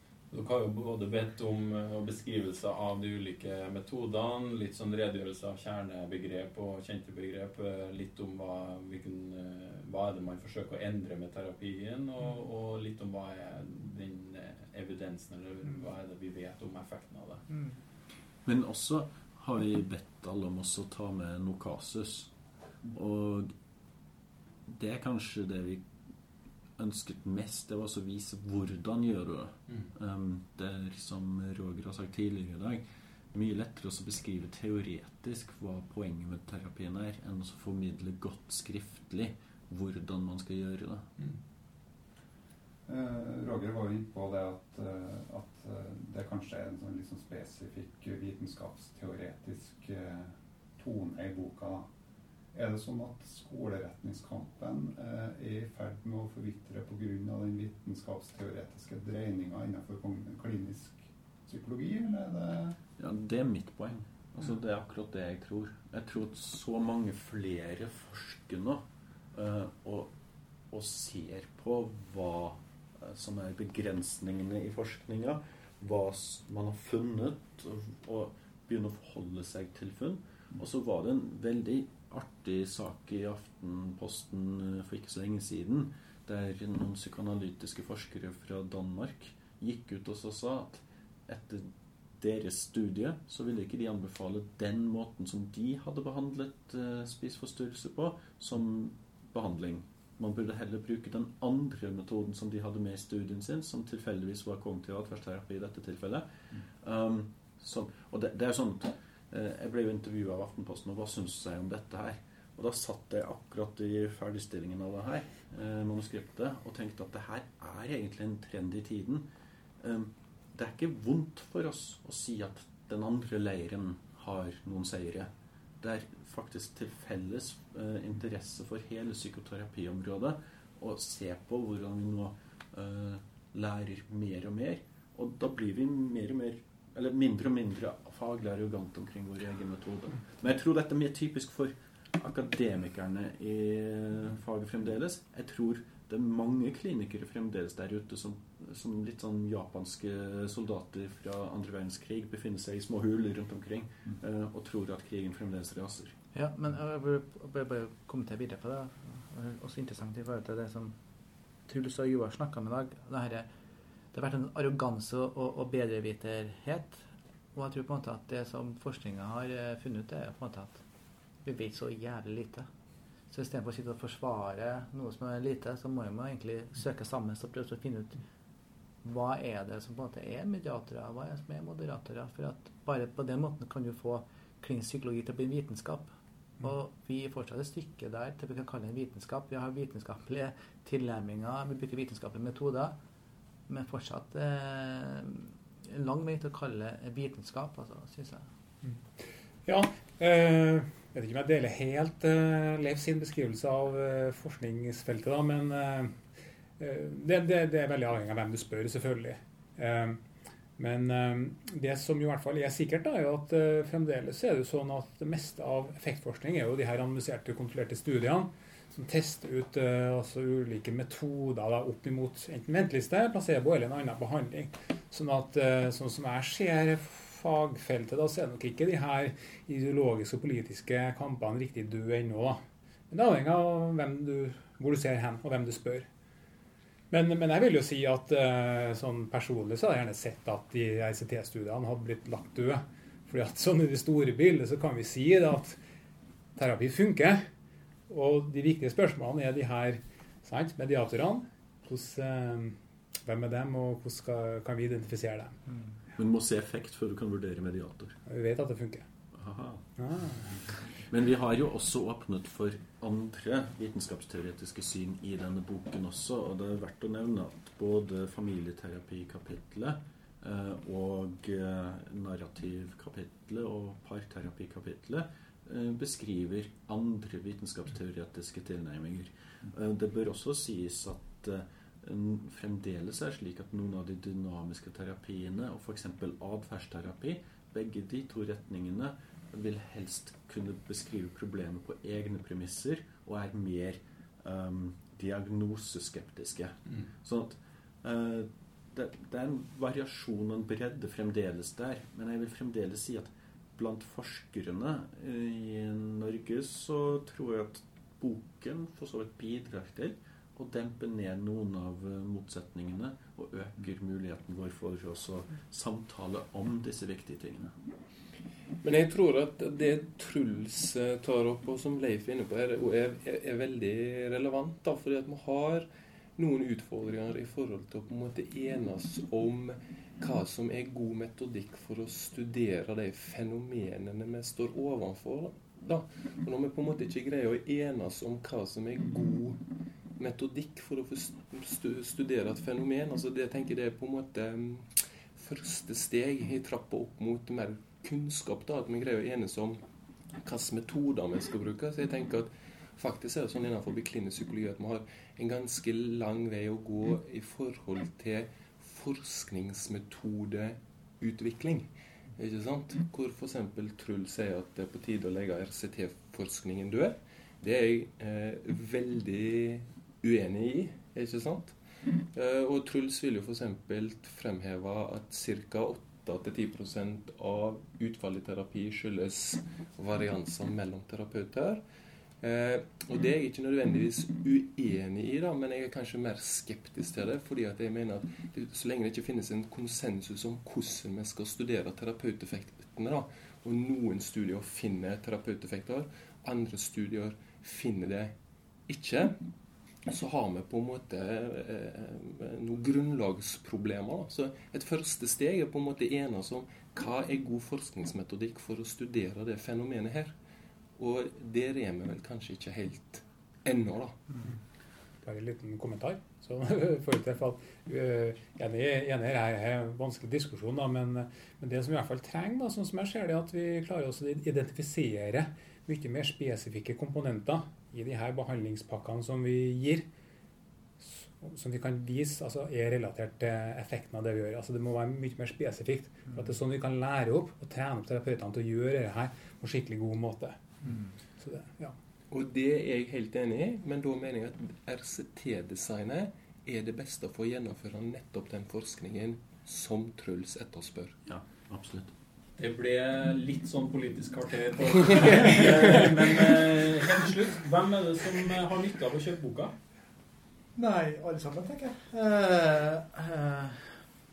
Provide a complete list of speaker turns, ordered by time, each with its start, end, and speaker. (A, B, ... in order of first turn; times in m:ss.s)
0:00.3-0:17.4 A
0:18.4-0:22.3 B
0:22.9-0:23.5 B
0:24.7-0:25.9 B
0:26.8-0:32.8 B
0:33.3-0:41.1 B
0:42.9-0:51.9 C
0:52.5-1:02.8 C
1:03.0-1:10.1 B
1:10.7-1:46.3 B
1:46.8-1:59.2 B
1:59.8-2:36.1 B
2:36.3-2:41.0 D
2:41.7-2:43.5 D
2:44.1-2:50.8 D
2:51.4-2:52.7 D
2:53.3-2:58.2 D
2:59.0-3:13.0 D
3:13.7-3:18.5 D
3:19.7-3:26.2 E
3:26.8-3:30.2 E
3:30.8-3:56.1 E
3:57.1-4:05.8 E
4:06.6-4:07.4 E
4:08.1-4:15.6 E
4:16.1-4:18.2 B
4:18.3-4:19.0 E
4:19.3-4:19.8 B
4:20.0-4:20.4 E
4:21.0-5:17.7 B
5:18.8-5:39.6 F
5:40.2-5:49.8 F
5:50.4-6:21.8 F
6:22.4-6:38.4 F
6:38.9-6:39.4 F
6:40.1-6:50.3 F
6:51.0-6:54.2 F
6:55.2-7:10.1 E
7:11.0-7:20.6 E
7:21.4-7:22.0 E
7:22.3-7:31.2 F
7:31.3-7:32.1 B
7:32.6-7:39.7 A
7:40.8-7:44.0 D